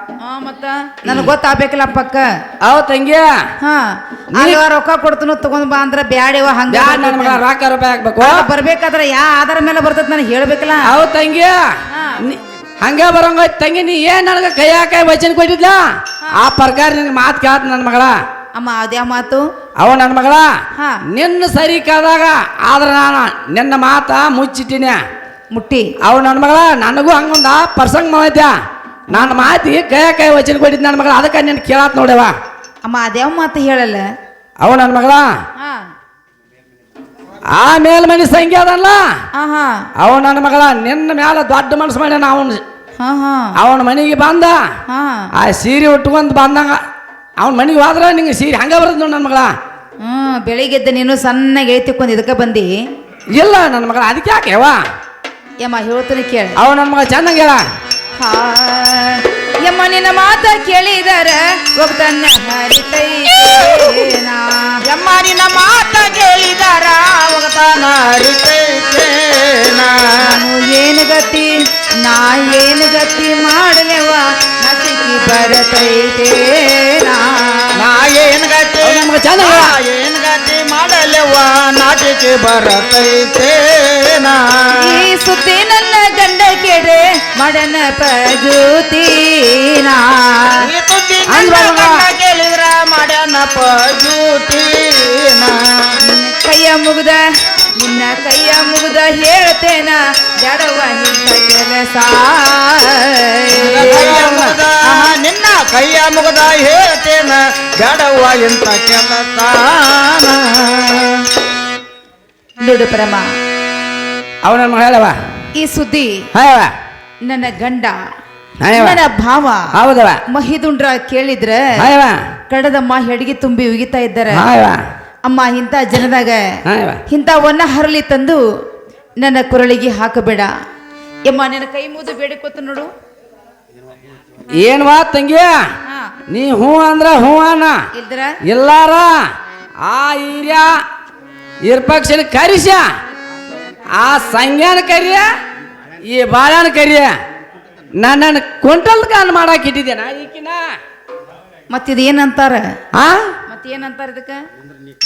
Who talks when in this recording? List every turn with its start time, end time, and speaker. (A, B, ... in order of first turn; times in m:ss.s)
0:00.2-0:02.4 A
0:01.1-0:01.3 B
0:02.6-0:03.5 B
0:03.6-0:07.4 A
0:04.4-0:04.6 B
0:06.7-0:08.5 B
0:08.2-0:10.9 A
0:10.8-0:11.6 B
0:11.9-0:12.2 A
0:12.2-0:18.2 B
0:18.6-0:19.5 A
0:19.8-0:20.5 B
0:20.8-0:21.0 A
0:21.1-0:25.0 B
0:25.5-0:25.9 A
0:26.0-0:28.6 B
0:29.1-0:32.4 B
0:29.1-0:29.5 A
0:32.8-0:34.1 A
0:34.6-0:35.4 B
0:35.6-0:35.9 A
0:37.5-0:39.1 B
0:39.4-0:39.9 A
0:40.0-0:42.6 B
0:43.0-0:43.5 A
0:43.6-0:44.7 B
0:44.9-0:45.3 A
0:45.3-0:46.8 B
0:47.4-0:49.6 B
0:50.0-0:52.8 A
0:53.3-0:54.8 B
0:55.6-0:56.6 A
0:56.6-0:57.7 B
0:58.2-1:04.8 A
1:04.8-1:10.4 C
1:10.2-1:17.8 A
1:17.9-1:24.9 C
1:18.8-1:19.8 B
1:24.8-1:30.6 A
1:30.6-1:35.7 C
1:31.3-1:32.1 B
1:36.1-1:37.2 A
1:37.8-1:44.3 A
1:43.6-1:51.3 C
1:43.8-1:44.6 B
1:44.9-1:45.2 A
1:52.6-1:53.3 A
1:54.4-1:55.2 B
1:55.6-1:56.3 A
1:56.3-1:56.7 B
1:57.2-1:58.1 A
1:58.6-1:59.0 B
1:58.7-1:59.7 A
1:59.7-2:00.2 B
2:00.3-2:01.9 A
2:01.8-2:02.2 B
2:02.5-2:04.5 A
2:04.3-2:04.8 B
2:05.3-2:08.4 A
2:06.7-2:07.0 B
2:09.2-2:10.5 A
2:11.3-2:12.9 A
2:14.6-2:15.7 B
2:15.9-2:16.1 A
2:16.3-2:17.8 B
2:17.9-2:18.4 A
2:18.4-2:19.3 B
2:19.8-2:20.8 B
2:21.6-2:22.9 B
2:24.0-2:25.3 B
2:26.0-2:27.1 B
2:28.0-2:30.7 B
2:31.7-2:32.8 A
2:32.9-2:33.3 B
2:33.5-2:34.4 A